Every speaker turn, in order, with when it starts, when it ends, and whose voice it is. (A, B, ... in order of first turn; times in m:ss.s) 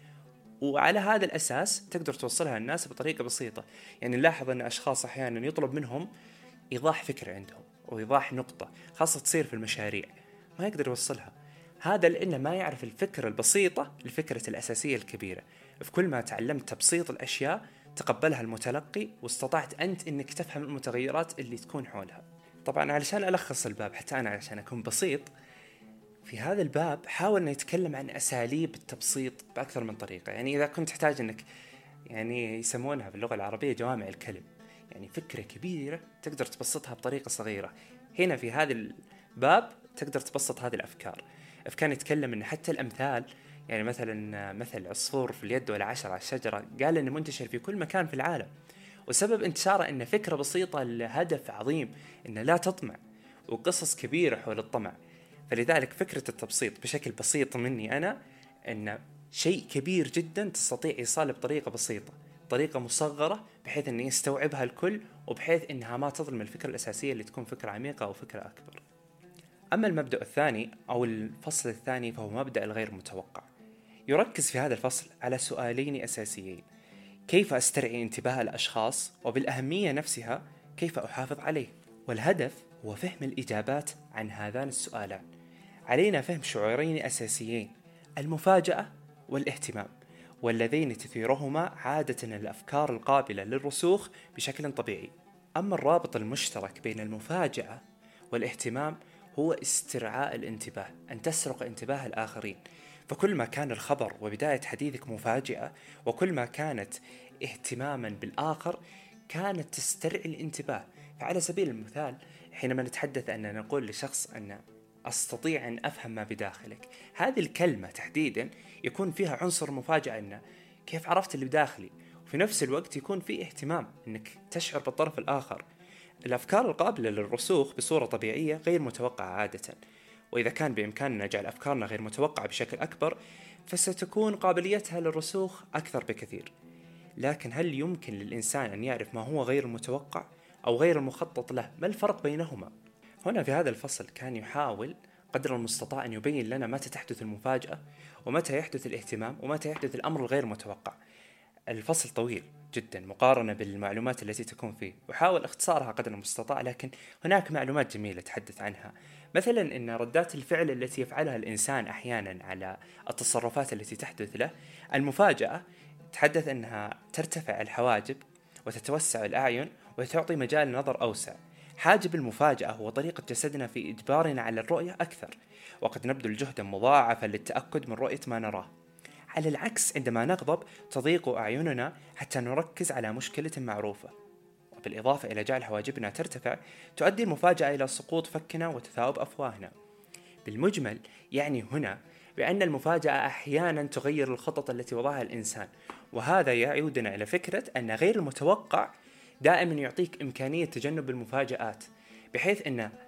0:00.6-0:06.1 A
0:06.7-0:25.3 A
0:26.2-0:31.5 A
0:32.1-0:48.5 A
0:49.1-0:55.0 A
0:55.5-1:08.8 A
1:09.7-1:13.5 A
1:14.1-1:16.6 A
1:17.3-1:25.2 A
1:25.9-1:29.9 A
1:30.4-2:05.6 A
2:06.3-2:09.8 A
2:10.3-2:16.5 A
2:17.2-2:22.7 A
2:23.2-2:31.0 A
2:31.7-2:58.7 A
2:59.3-3:04.1 A
3:04.7-3:09.7 A
3:10.4-3:18.9 A
3:19.4-3:22.9 A